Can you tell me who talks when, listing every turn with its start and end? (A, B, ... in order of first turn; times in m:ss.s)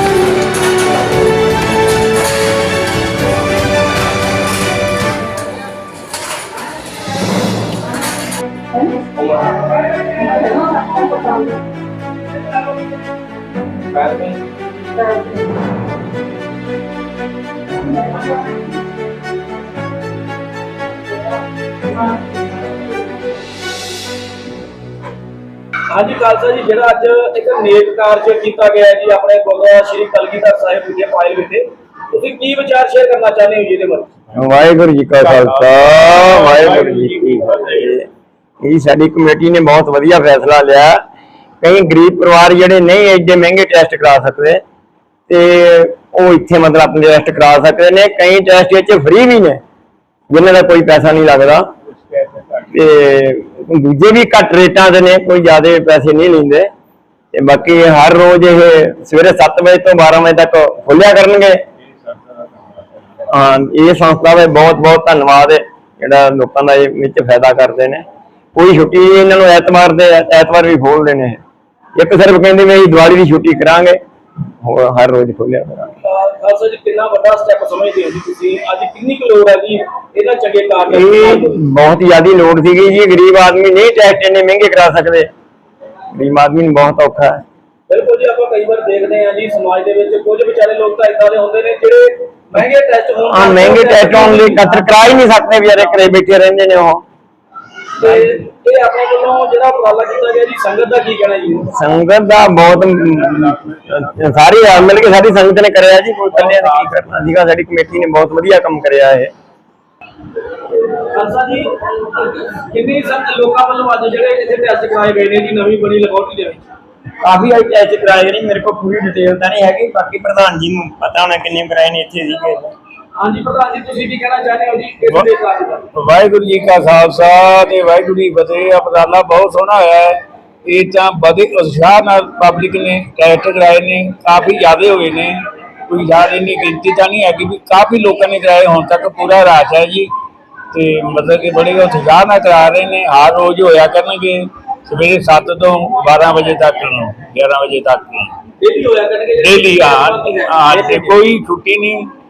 0:25.9-0:34.1 A
0:34.3-0:38.1 B
0:35.2-0:37.6 C
0:38.6-0:41.0 B
0:41.6-0:44.6 B
0:45.3-0:49.6 B
0:50.3-0:51.7 B
0:52.7-0:56.7 B
0:57.3-1:01.6 B
1:03.3-1:11.4 B
1:11.9-1:14.0 B
1:14.6-1:15.9 B
1:16.0-1:21.6 A
1:20.9-1:25.3 B
1:26.1-1:27.4 B
1:27.9-1:34.9 A
1:33.3-1:37.0 B
1:38.0-1:41.7 A
1:41.7-1:49.3 B
1:46.4-1:46.8 C
1:50.7-1:56.6 A
1:57.2-2:02.7 B
2:03.2-2:05.8 A
2:05.9-2:15.4 C
2:15.9-2:20.1 C
2:20.7-2:28.3 C
2:28.6-2:31.2 A
2:29.4-2:32.1 C